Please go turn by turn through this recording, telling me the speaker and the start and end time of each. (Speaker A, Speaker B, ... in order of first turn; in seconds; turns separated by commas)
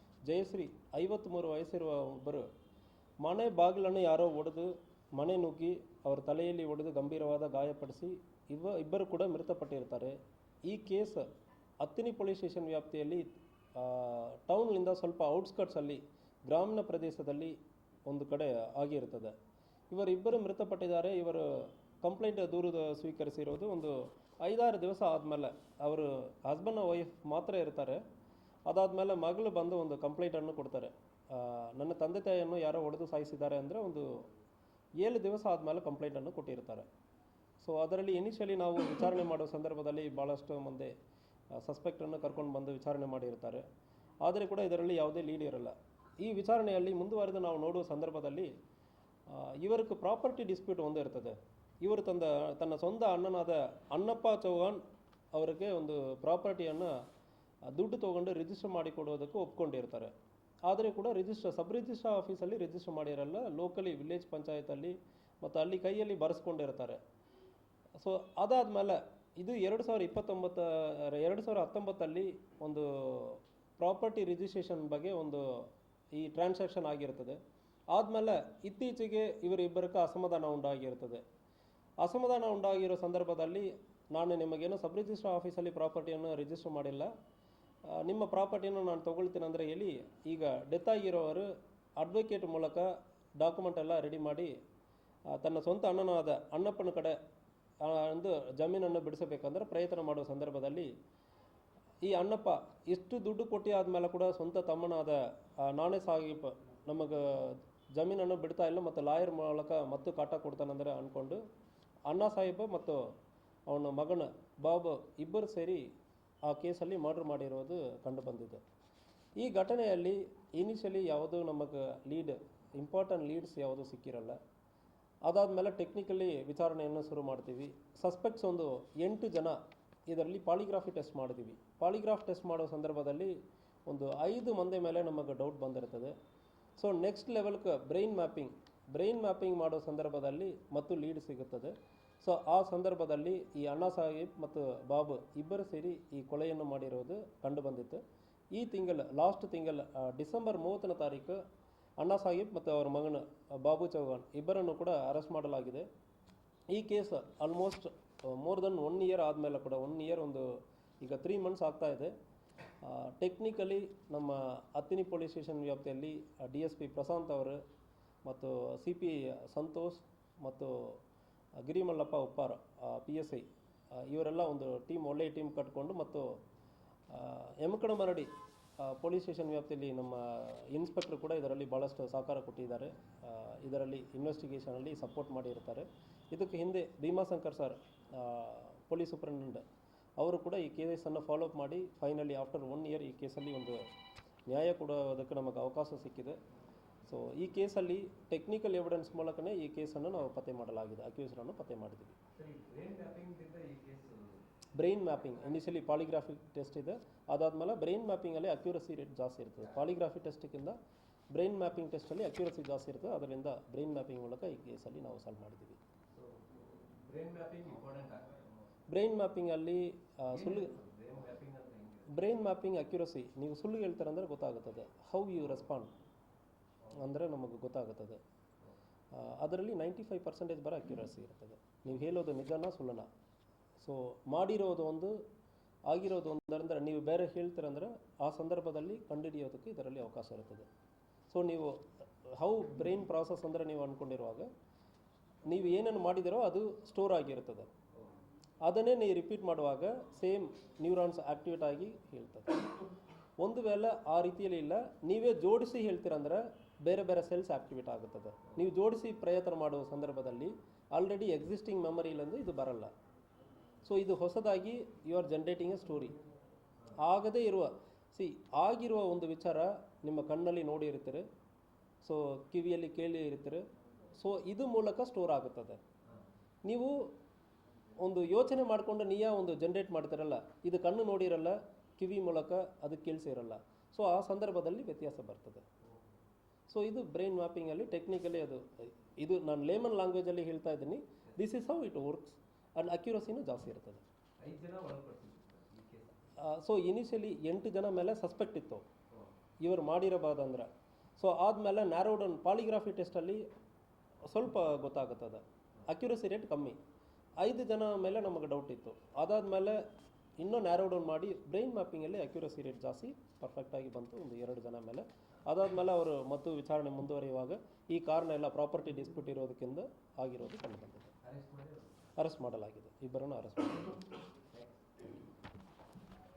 Speaker A: 0.2-2.5, Speaker A: 3.2-11.3, Speaker A: 11.8-17.6, Speaker A: 18.1-19.4, Speaker A: 19.9-28.0, Speaker A: 28.7-34.2, Speaker A: 35.0-36.9, Speaker A: 37.6-41.0, Speaker A: 41.5-43.6, Speaker A: 44.2-48.5, Speaker A: 49.3-54.8, Speaker A: 55.3-57.0, Speaker A: 57.7-60.1, Speaker A: 60.6-67.0, Speaker A: 68.0-77.4, Speaker A: 77.9-81.2, Speaker A: 82.0-87.1, Speaker A: 87.9-91.5, Speaker A: 92.0-94.5, Speaker A: 95.3-97.2, Speaker A: 97.8-100.9, Speaker A: 102.0-111.4, Speaker A: 112.1-113.0, Speaker A: 113.7-115.8, Speaker A: 116.4-118.6, Speaker A: 119.4-124.4, Speaker A: 125.2-136.2, Speaker A: 136.8-148.0, Speaker A: 148.5-151.4, Speaker A: 152.0-155.9, Speaker A: 156.7-162.1, Speaker A: 162.8-167.6, Speaker A: 168.2-171.0, Speaker A: 171.6-176.4, Speaker A: 177.1-189.7, Speaker A: 190.2-193.8, Speaker A: 194.5-196.4, Speaker A: 197.1-202.2, Speaker B: 202.3-204.4, Speaker A: 204.8-210.8, Speaker A: 211.3-215.8, Speaker B: 216.1-218.7, Speaker A: 218.9-220.8, Speaker B: 220.3-222.2, Speaker A: 222.1-225.9, Speaker A: 226.9-228.2, Speaker A: 229.1-233.1, Speaker A: 233.8-235.2, Speaker A: 235.9-240.7, Speaker A: 241.3-244.5, Speaker A: 245.4-247.7, Speaker A: 248.6-252.7, Speaker A: 253.4-262.9, Speaker A: 263.8-266.2, Speaker A: 267.0-271.2, Speaker A: 272.0-275.8, Speaker A: 276.6-277.1, Speaker A: 278.0-285.6, Speaker B: 285.8-286.2, Speaker A: 286.7-294.0, Speaker B: 294.4-296.2, Speaker A: 296.4-298.8, Speaker A: 299.6-303.5, Speaker A: 304.3-306.8, Speaker A: 307.4-309.8, Speaker A: 310.4-321.1, Speaker B: 321.2-321.9, Speaker A: 322.2-324.0, Speaker B: 324.5-325.1